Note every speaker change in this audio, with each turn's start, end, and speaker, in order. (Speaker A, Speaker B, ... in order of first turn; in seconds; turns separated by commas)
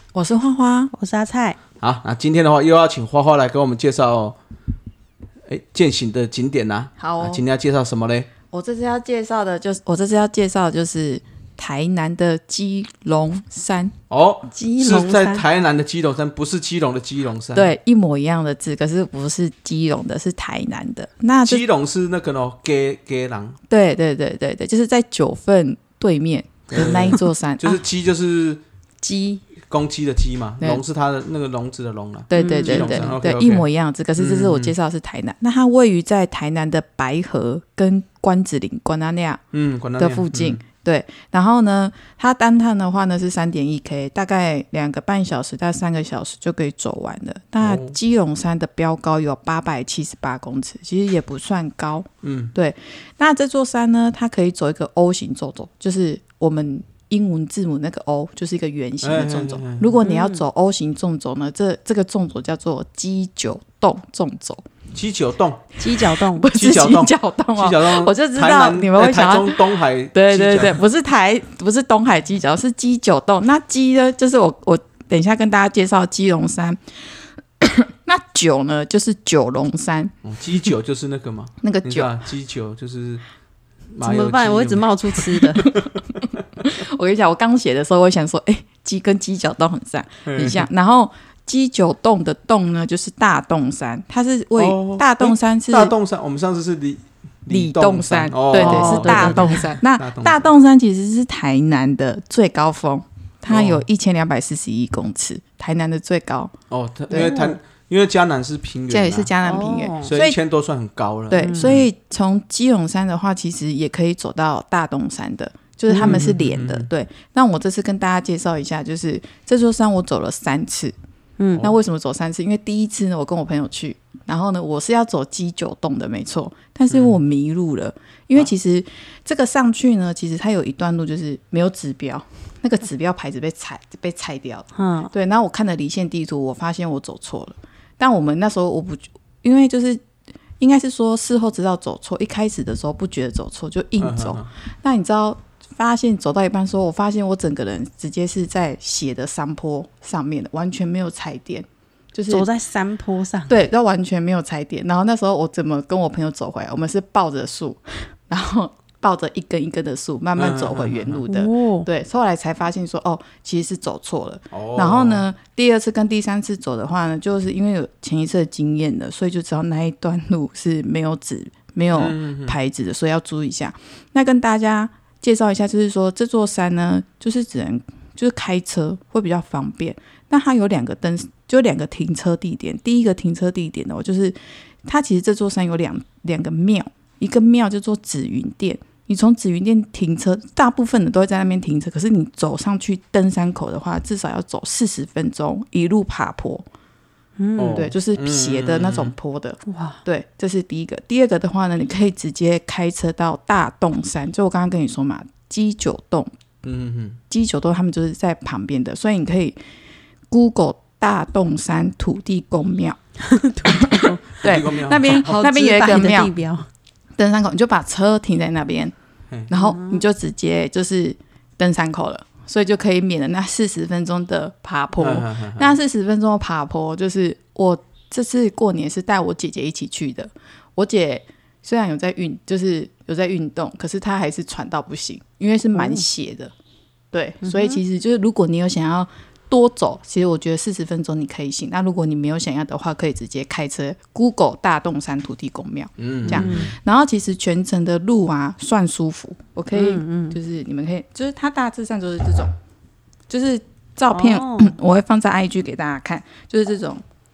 Speaker A: 0.1-0.9, Speaker B: 0.9-1.6, Speaker C: 1.8-4.4, Speaker C: 5.5-8.3, Speaker A: 7.0-7.4, Speaker A: 8.5-13.9, Speaker C: 14.1-17.7, Speaker A: 14.5-15.2, Speaker B: 14.8-15.4, Speaker A: 17.5-21.6, Speaker C: 21.4-23.6, Speaker A: 23.7-27.8, Speaker C: 26.7-28.6, Speaker A: 29.0-29.4, Speaker C: 29.7-34.7, Speaker A: 32.3-39.4, Speaker B: 32.3-33.1, Speaker C: 39.5-40.6, Speaker A: 40.0-64.6, Speaker C: 47.6-48.0, Speaker C: 52.2-52.5, Speaker C: 59.0-59.9, Speaker B: 60.0-60.4, Speaker C: 64.9-65.6, Speaker B: 65.8-66.5, Speaker A: 66.0-76.8, Speaker C: 66.5-70.8, Speaker A: 77.6-80.1, Speaker C: 80.2-83.2, Speaker A: 81.6-82.1, Speaker C: 83.9-86.1, Speaker B: 84.0-85.8, Speaker A: 86.6-95.9, Speaker C: 90.2-90.7, Speaker C: 94.5-100.5, Speaker A: 97.5-106.5, Speaker B: 98.5-99.7, Speaker C: 103.5-103.8, Speaker C: 106.7-109.3, Speaker A: 107.1-107.4, Speaker B: 107.1-107.6, Speaker A: 108.9-110.4, Speaker B: 109.4-110.1, Speaker C: 110.0-111.8, Speaker A: 111.3-120.9, Speaker B: 111.4-111.7, Speaker B: 115.9-116.2, Speaker C: 115.9-116.9, Speaker B: 121.4-121.7, Speaker A: 121.5-140.0, Speaker C: 126.9-127.2, Speaker B: 134.7-135.1, Speaker A: 140.6-152.5, Speaker C: 144.0-144.5, Speaker B: 152.3-153.7, Speaker A: 153.5-196.6, Speaker C: 160.4-161.2, Speaker B: 161.3-161.9, Speaker C: 164.5-165.2, Speaker C: 171.9-172.6, Speaker B: 197.4-197.8, Speaker C: 197.6-199.1, Speaker A: 197.7-206.3, Speaker B: 199.7-200.0, Speaker C: 206.6-207.2, Speaker A: 207.3-209.6, Speaker A: 210.3-213.0, Speaker B: 213.2-216.7, Speaker A: 213.7-216.3, Speaker C: 214.4-215.2, Speaker A: 217.2-218.9, Speaker A: 219.5-236.5, Speaker B: 219.5-220.0, Speaker C: 225.0-225.7, Speaker B: 235.7-236.0, Speaker A: 237.1-252.5, Speaker B: 237.4-237.8, Speaker C: 246.0-246.7, Speaker B: 246.3-246.7, Speaker B: 249.7-250.4, Speaker A: 253.3-257.0, Speaker B: 254.1-254.8